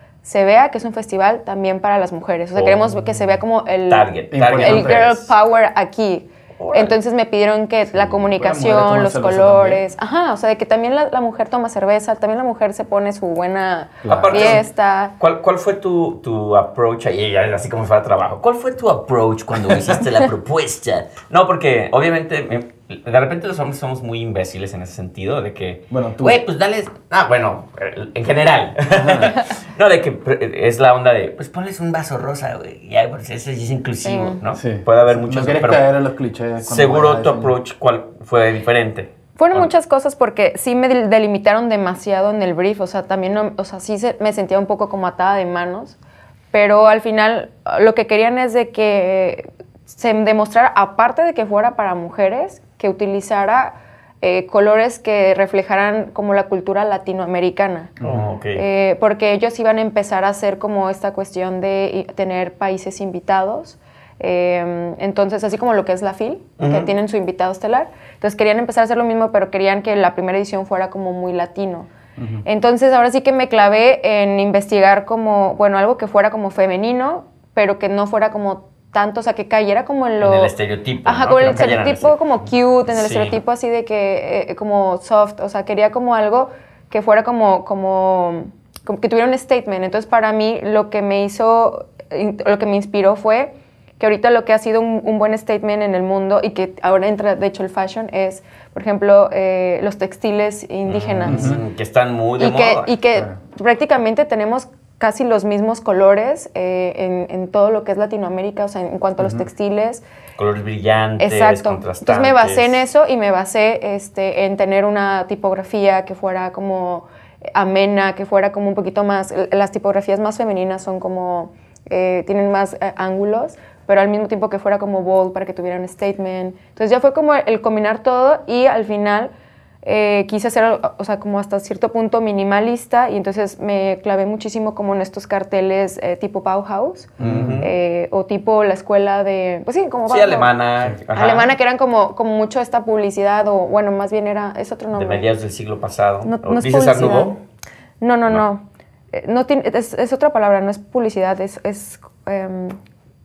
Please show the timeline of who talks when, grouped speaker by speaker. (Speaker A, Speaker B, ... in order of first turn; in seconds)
Speaker A: 0.2-15.1, 34.0-34.4, 39.4-46.0, 46.5-57.9, 58.5-71.9, 72.4-80.5, 81.0-101.6, 102.4-110.0, 111.2-129.3, 129.8-140.5, 141.1-145.2, 146.2-147.4, 148.0-152.8
Speaker B: 2.5-3.1, 3.9-5.3, 6.6-7.0, 14.1-14.6, 15.2-35.8, 36.6-39.7, 58.0-58.6, 66.6-66.9, 80.2-82.2, 82.9-83.4, 100.8-102.9, 110.4-112.8, 137.2-137.7, 140.1-141.5, 144.9-147.4
Speaker C: 4.3-5.0, 7.9-9.8, 14.0-14.6, 25.9-26.4, 28.9-29.4, 34.5-37.5, 58.0-58.3, 72.2-72.4, 101.2-101.6, 109.2-109.4, 137.2-137.6